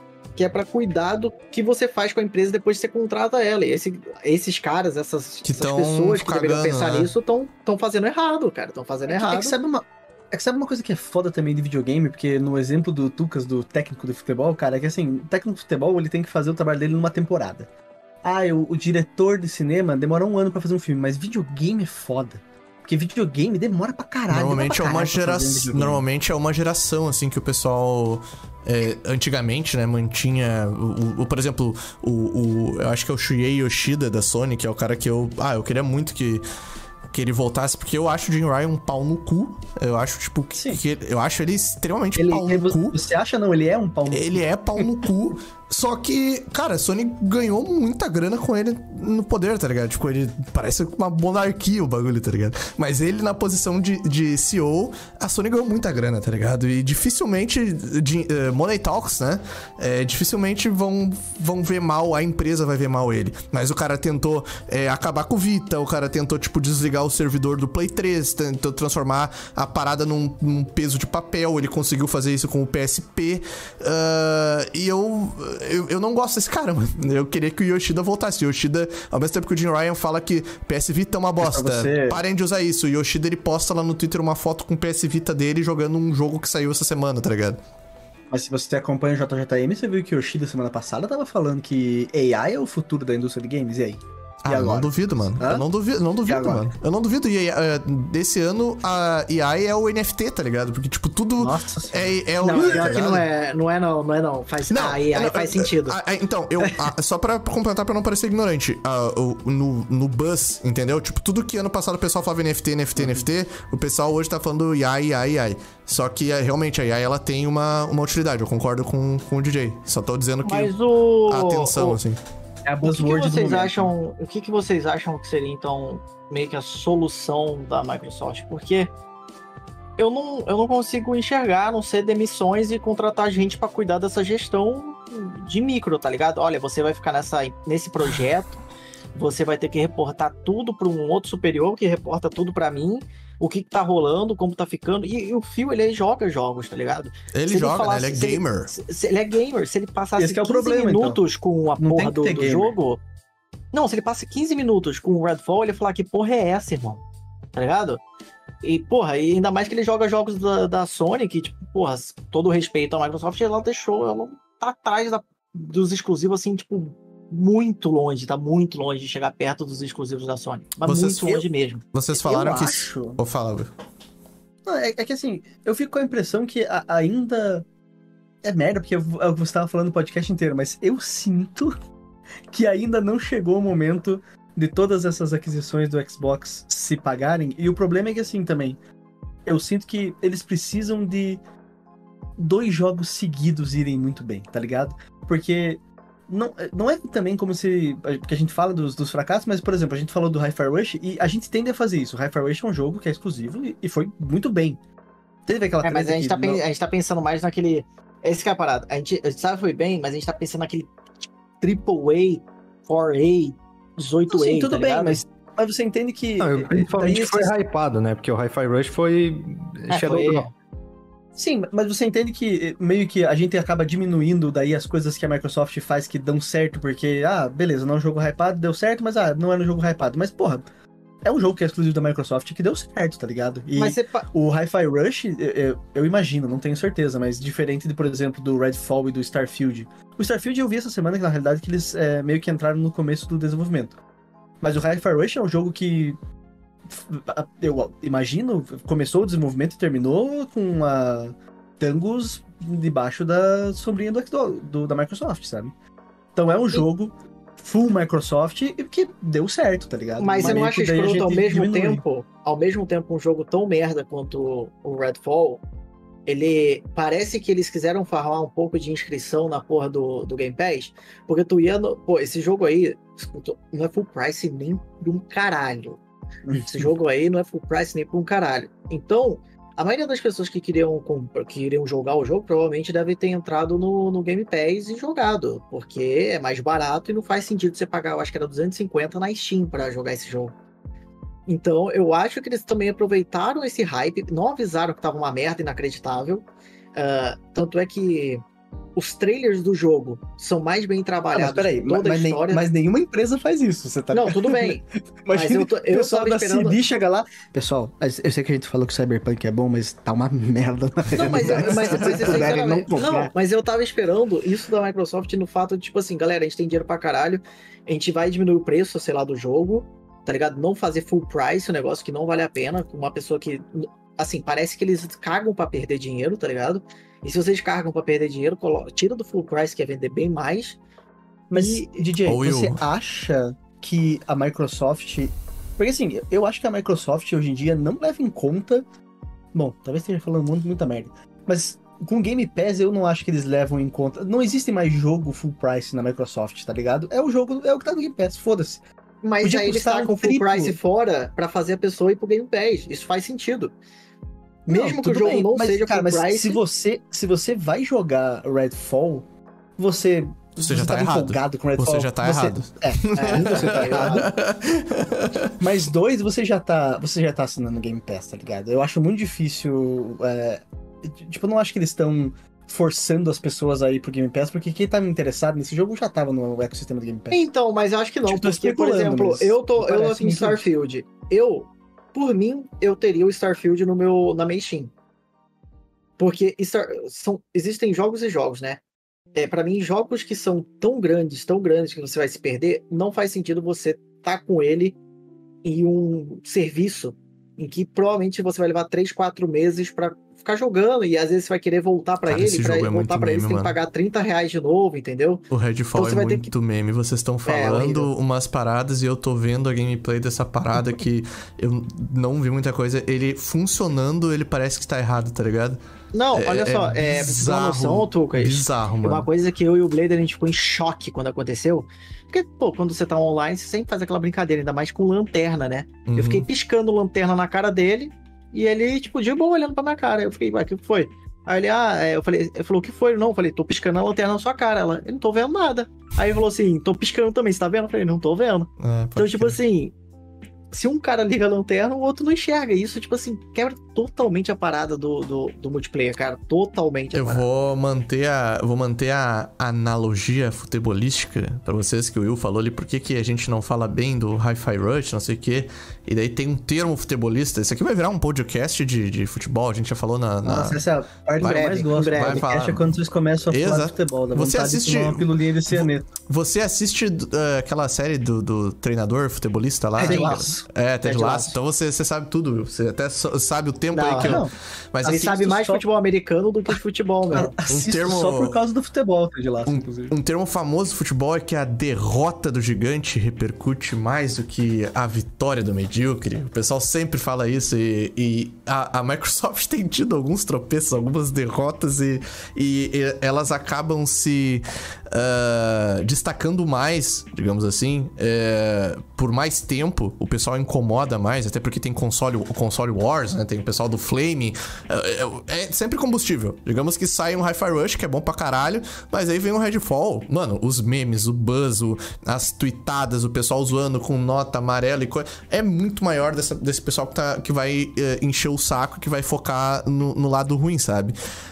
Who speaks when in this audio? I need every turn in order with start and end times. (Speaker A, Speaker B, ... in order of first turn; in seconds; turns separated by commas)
Speaker A: 0.4-9.6, Speaker B: 5.5-7.1, Speaker C: 9.1-17.7, Speaker C: 18.2-26.0, Speaker B: 24.3-36.4, Speaker B: 37.1-43.0, Speaker C: 40.5-40.8, Speaker C: 42.2-44.9, Speaker B: 44.1-87.6, Speaker C: 81.4-82.2, Speaker C: 88.3-95.7, Speaker B: 94.4-103.3, Speaker C: 96.3-96.7, Speaker C: 101.4-103.0, Speaker A: 102.4-106.0, Speaker B: 104.7-120.7, Speaker C: 113.0-113.3, Speaker A: 120.5-122.0, Speaker B: 121.3-122.2, Speaker C: 122.7-123.9, Speaker A: 122.8-128.9, Speaker A: 130.0-138.6, Speaker A: 139.2-153.0, Speaker B: 147.3-148.7, Speaker C: 150.2-151.2, Speaker C: 151.8-152.8, Speaker A: 153.7-157.0, Speaker A: 157.6-158.0, Speaker A: 158.6-172.8, Speaker B: 170.8-173.7, Speaker C: 172.3-173.2, Speaker C: 174.7-177.7, Speaker C: 178.4-181.7, Speaker C: 182.5-188.8, Speaker C: 189.5-191.4, Speaker C: 192.4-204.8, Speaker C: 205.5-206.6, Speaker A: 205.8-210.9, Speaker A: 211.6-215.2, Speaker C: 214.3-217.6, Speaker D: 216.4-220.5, Speaker A: 219.9-220.5, Speaker C: 221.3-230.7, Speaker C: 231.2-244.0, Speaker A: 233.8-234.2, Speaker C: 244.6-246.2, Speaker C: 246.9-255.7, Speaker C: 256.4-262.0, Speaker A: 260.2-265.6, Speaker A: 266.3-276.0, Speaker C: 276.5-276.9, Speaker A: 276.7-290.5, Speaker A: 291.5-298.4, Speaker A: 299.0-302.7, Speaker C: 301.3-313.3, Speaker A: 304.1-306.8, Speaker A: 311.1-330.8, Speaker B: 311.7-312.5, Speaker C: 331.5-338.9, Speaker A: 331.5-331.9, Speaker B: 332.2-332.8, Speaker C: 339.5-348.8, Speaker A: 349.2-353.7, Speaker C: 349.4-350.8, Speaker A: 354.7-356.6, Speaker C: 354.7-364.3, Speaker B: 360.6-365.6, Speaker A: 363.1-364.3, Speaker C: 365.6-377.5, Speaker A: 377.3-384.9, Speaker C: 378.2-380.6, Speaker A: 386.2-388.8, Speaker A: 389.4-395.0, Speaker A: 395.6-405.4, Speaker B: 402.2-403.8, Speaker B: 405.5-415.8, Speaker A: 405.9-406.5, Speaker A: 407.5-408.1, Speaker A: 416.1-439.9, Speaker B: 416.3-419.3, Speaker B: 426.1-426.5, Speaker B: 438.8-439.6, Speaker A: 440.7-447.4, Speaker B: 447.1-460.8, Speaker C: 460.4-466.1, Speaker B: 461.4-462.9, Speaker A: 461.4-462.5, Speaker B: 463.5-475.5, Speaker C: 470.0-471.5, Speaker A: 470.0-471.5, Speaker A: 473.9-474.4, Speaker C: 474.2-474.5, Speaker C: 475.0-475.8, Speaker A: 475.1-477.5, Speaker C: 477.3-480.1, Speaker B: 477.7-478.6, Speaker B: 479.7-521.1